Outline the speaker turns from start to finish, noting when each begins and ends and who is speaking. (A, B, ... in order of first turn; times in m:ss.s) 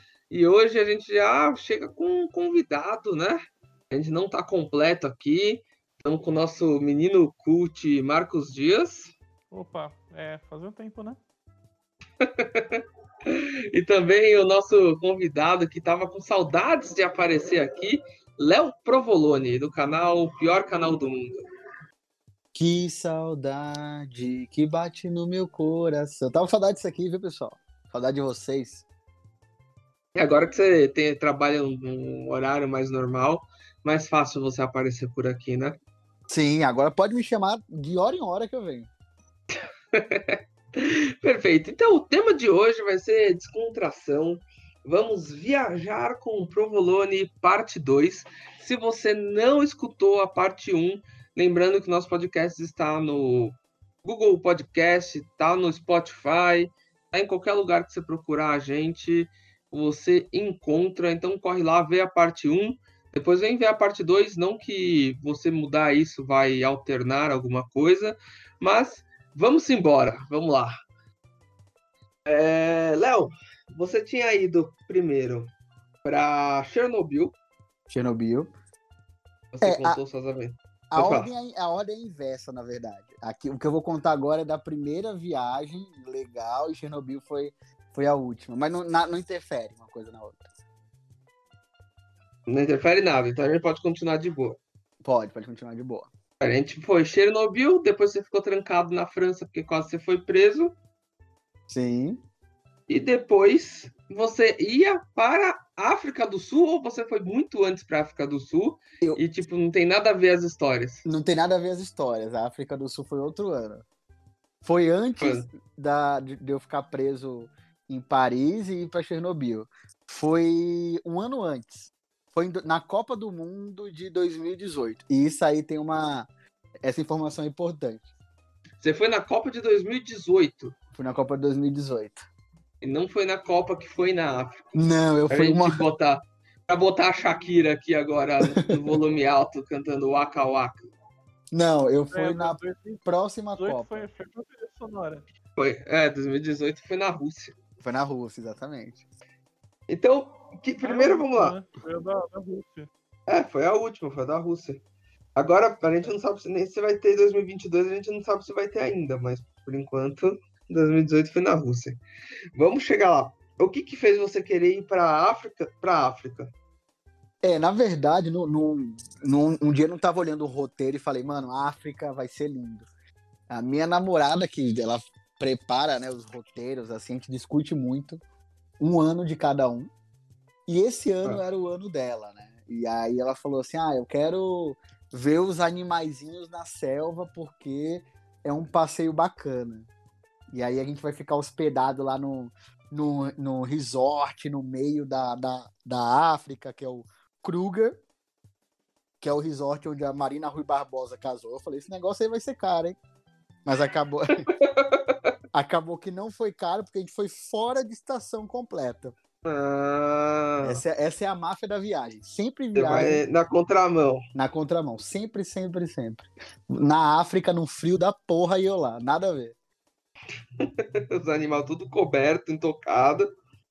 0:00.3-0:09.1 A
0:09.5-0:11.2 B
0:12.2-0:21.4 A
0:22.5-0:28.8 C
0:30.2-0:35.8 A
0:36.3-0:38.9 C
0:39.9-1:10.8 A
1:12.3-1:15.5 A
1:16.0-1:17.4 A
1:17.9-1:18.5 C
1:19.5-1:21.3 A
1:19.6-1:20.0 C
1:20.9-1:30.5 C
1:32.5-1:34.6 A
1:35.0-1:36.1 C
1:36.4-1:40.8 A
1:41.7-1:42.2 C
1:42.9-1:51.0 A
1:51.0-1:53.8 C
1:54.6-2:06.3 C
1:55.2-1:55.5 A
2:06.8-2:08.0 C
2:08.8-2:10.8 A
2:10.9-2:12.2 C
2:12.8-2:14.7 A
2:14.7-2:15.8 C
2:15.3-2:20.8 A
2:21.5-2:24.1 C
2:22.1-2:23.0 B
2:23.6-2:25.2 B
2:25.6-2:27.6 A
2:27.8-2:29.0 C
2:29.9-2:31.6 A
2:30.8-2:32.9 B
2:33.3-2:34.8 A
2:35.4-2:42.0 A
2:42.6-2:46.5 A
2:47.4-2:52.9 C
2:53.5-2:58.2 C
2:58.8-2:59.9 C
3:00.7-3:09.9 C
3:10.5-3:18.0 C
3:19.2-3:23.0 C
3:23.7-3:24.5 C
3:24.5-3:25.2 A
3:25.5-3:29.2 C
3:29.4-3:30.8 A
3:30.6-3:33.2 C
3:32.8-3:34.2 A
3:34.4-3:39.6 C
3:40.6-3:43.3 A